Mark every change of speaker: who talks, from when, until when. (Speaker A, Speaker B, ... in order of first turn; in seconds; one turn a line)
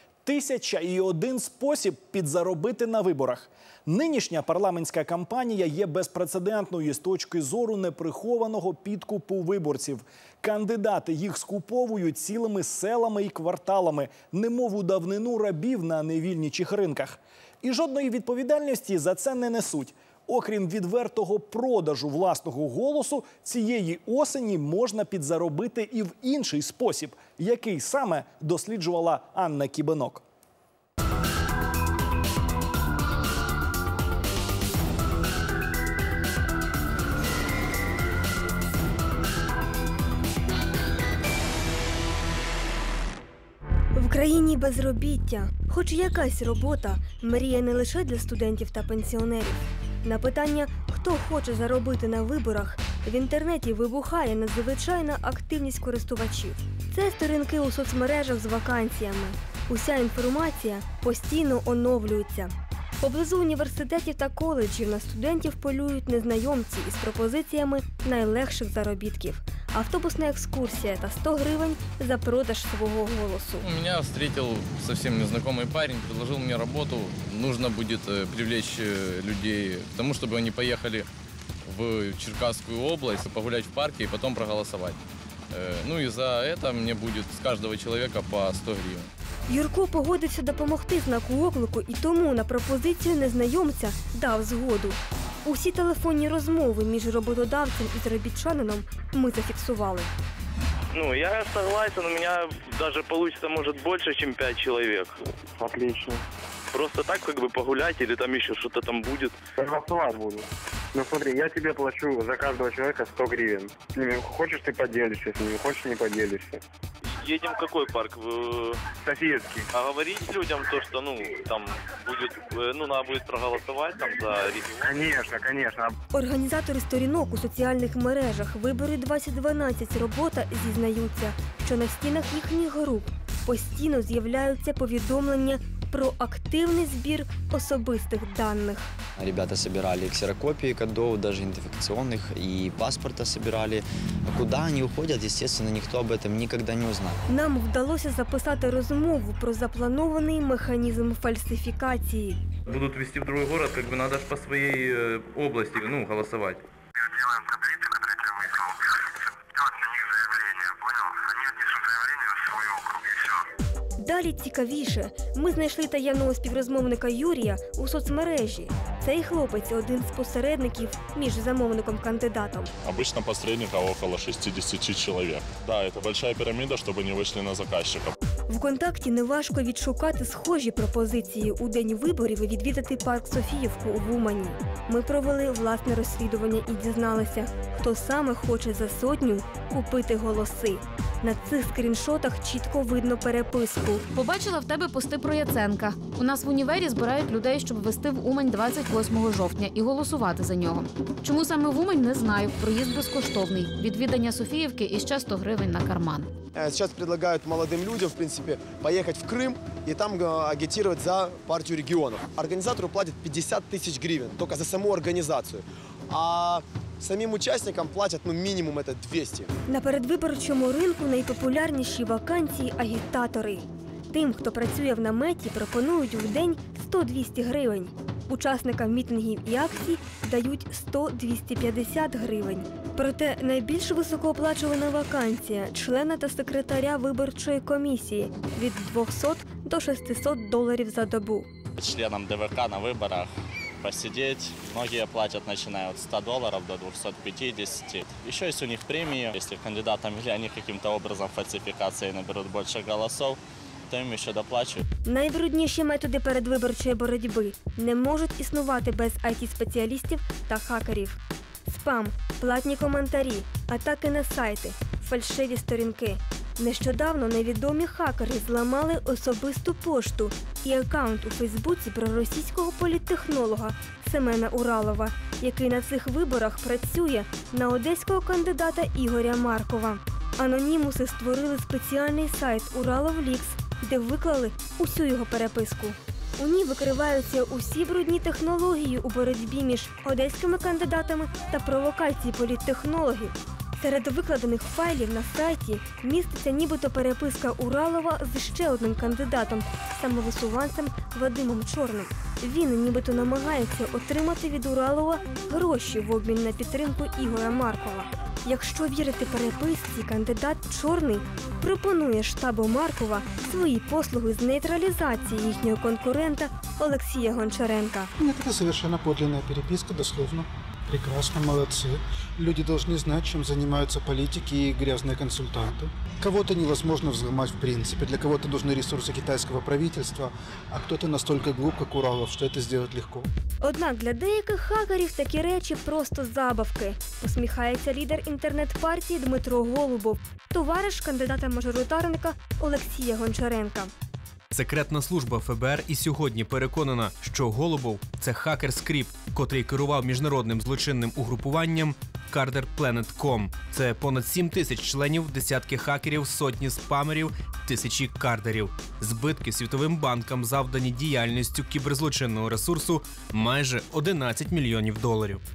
Speaker A: 0.2-30.2
Speaker B: 43.9-73.7
Speaker C: 73.6-81.1
Speaker C: 81.7-85.0
Speaker C: 85.5-89.1
Speaker B: 89.5-100.1
Speaker D: 100.9-105.1
Speaker E: 105.6-106.1
Speaker D: 106.7-109.4
Speaker E: 109.6-110.4
Speaker E: 111.0-116.6
Speaker D: 117.0-118.8
Speaker E: 119.2-119.5
Speaker D: 119.7-125.1
Speaker E: 125.3-125.9
Speaker B: 126.1-138.9
Speaker F: 139.2-147.2
Speaker B: 147.3-152.4
Speaker C: 152.7-156.6
Speaker B: 164.0-172.7
Speaker G: 172.8-178.1
Speaker B: 178.5-194.0
Speaker H: 194.1-206.3
Speaker I: 206.5-219.5
Speaker B: 219.7-241.5
Speaker J: 241.8-254.8
Speaker B: 255.1-318.1
Speaker K: 318.2-333.3
Speaker B: 333.6-343.9
Speaker L: 344.5-365.4